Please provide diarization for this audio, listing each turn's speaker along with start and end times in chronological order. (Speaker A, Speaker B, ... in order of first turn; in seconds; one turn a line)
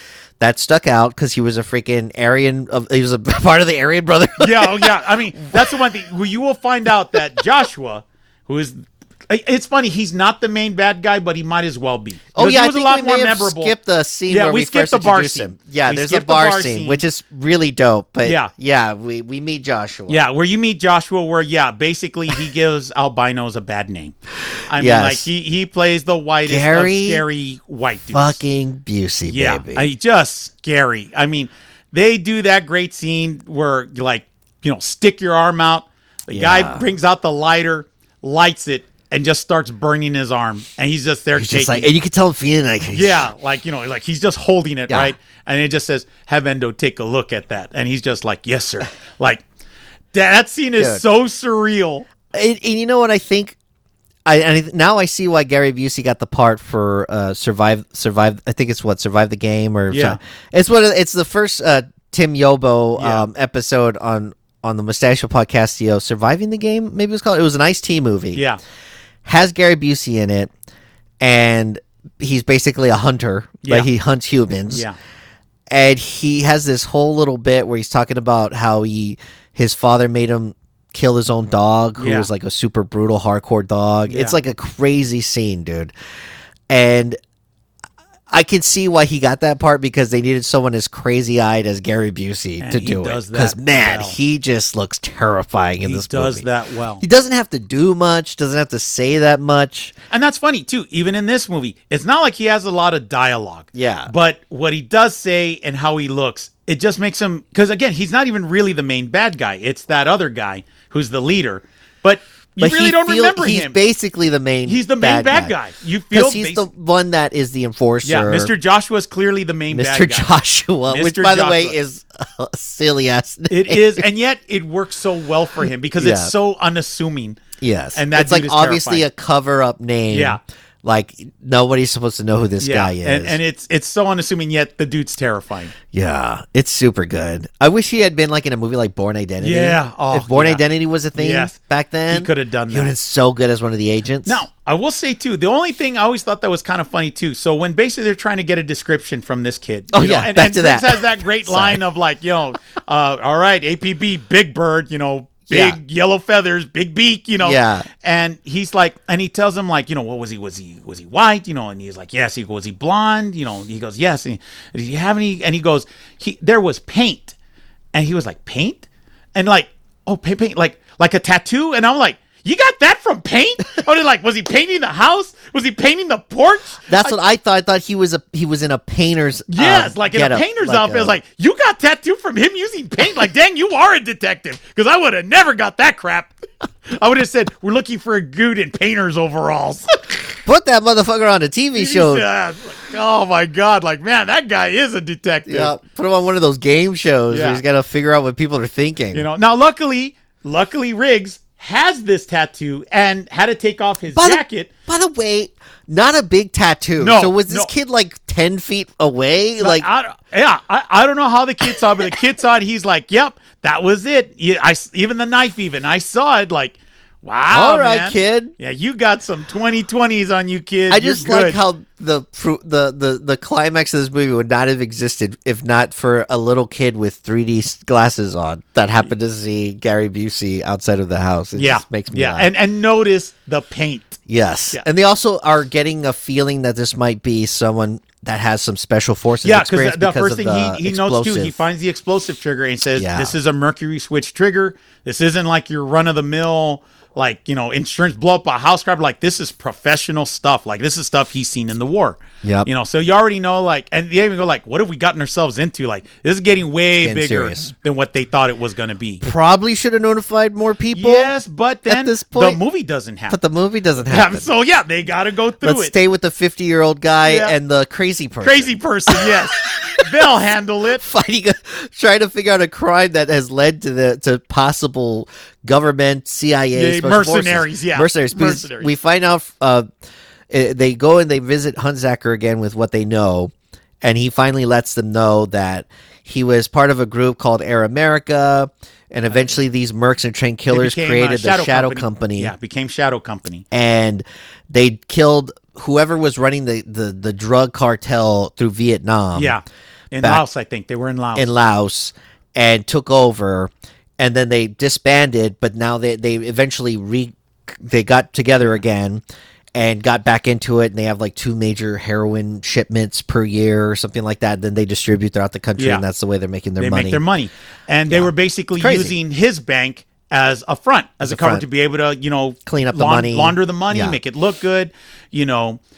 Speaker A: 0.4-5.6
Speaker B: 4.4-13.7
Speaker A: 12.3-20.2
Speaker B: 14.3-17.0
Speaker B: 18.2-18.5
Speaker B: 20.1-24.1
Speaker B: 24.7-28.4
Speaker A: 24.7-25.3
Speaker A: 26.4-27.2
Speaker A: 28.1-29.9
Speaker B: 29.3-41.9
Speaker A: 36.3-36.8
Speaker A: 41.4-43.3
Speaker B: 42.9-49.4
Speaker A: 44.9-45.1
Speaker B: 50.1-52.0
Speaker A: 52.3-53.5
Speaker A: 54.2-68.4
Speaker B: 59.9-60.2
Speaker B: 63.0-63.3
Speaker B: 68.3-68.6
Speaker A: 69.2-70.5
Speaker A: 71.2-74.8
Speaker B: 73.6-73.9
Speaker B: 74.7-75.0
Speaker A: 75.7-85.9
Speaker B: 82.0-82.3
Speaker B: 84.1-84.3
Speaker A: 86.7-87.2
Speaker A: 88.3-96.5
Speaker B: 92.6-94.2
Speaker B: 95.8-97.0
Speaker A: 97.0-99.9
Speaker B: 100.1-113.8
Speaker A: 103.7-104.1
Speaker A: 112.6-115.5
Speaker B: 114.7-116.7
Speaker A: 116.1-118.5
Speaker B: 118.0-120.3
Speaker A: 119.7-124.0
Speaker B: 120.9-121.8
Speaker B: 123.5-127.4
Speaker A: 126.0-126.3
Speaker A: 127.6-133.4
Speaker B: 127.9-129.1
Speaker B: 130.1-130.4
Speaker B: 132.6-135.7
Speaker A: 135.9-144.4
Speaker B: 139.4-140.6
Speaker B: 141.2-141.5
Speaker B: 142.1-142.9
Speaker B: 144.2-167.3
Speaker A: 149.9-151.8
Speaker A: 155.5-155.8
Speaker A: 157.4-157.8
Speaker B: 167.9-177.2
Speaker A: 176.9-181.2
Speaker B: 179.5-186.3
Speaker B: 186.9-189.9
Speaker A: 190.4-192.2
Speaker B: 191.8-195.7
Speaker A: 195.4-199.2
Speaker B: 197.3-197.6
Speaker B: 199.1-204.7
Speaker A: 204.1-209.9
Speaker B: 207.0-207.7
Speaker B: 209.6-221.6
Speaker A: 217.5-218.5
Speaker A: 220.9-232.5
Speaker B: 231.6-234.2
Speaker A: 234.3-241.6
Speaker B: 239.4-259.2
Speaker A: 243.0-243.3
Speaker A: 252.4-252.7
Speaker A: 257.0-257.7
Speaker A: 259.2-261.3
Speaker B: 260.9-263.4
Speaker A: 261.9-262.6
Speaker A: 263.3-264.5
Speaker B: 264.1-265.9
Speaker A: 265.6-269.9
Speaker B: 267.2-267.5
Speaker B: 268.4-271.0
Speaker A: 271.0-279.9
Speaker B: 276.7-278.9
Speaker A: 280.5-292.5
Speaker B: 290.7-293.6
Speaker A: 293.7-299.6
Speaker B: 299.3-301.5
Speaker A: 301.4-309.2
Speaker A: 309.7-317.2
Speaker B: 315.8-316.0
Speaker B: 316.8-325.8
Speaker A: 318.1-319.1
Speaker A: 321.2-321.6
Speaker A: 322.6-324.2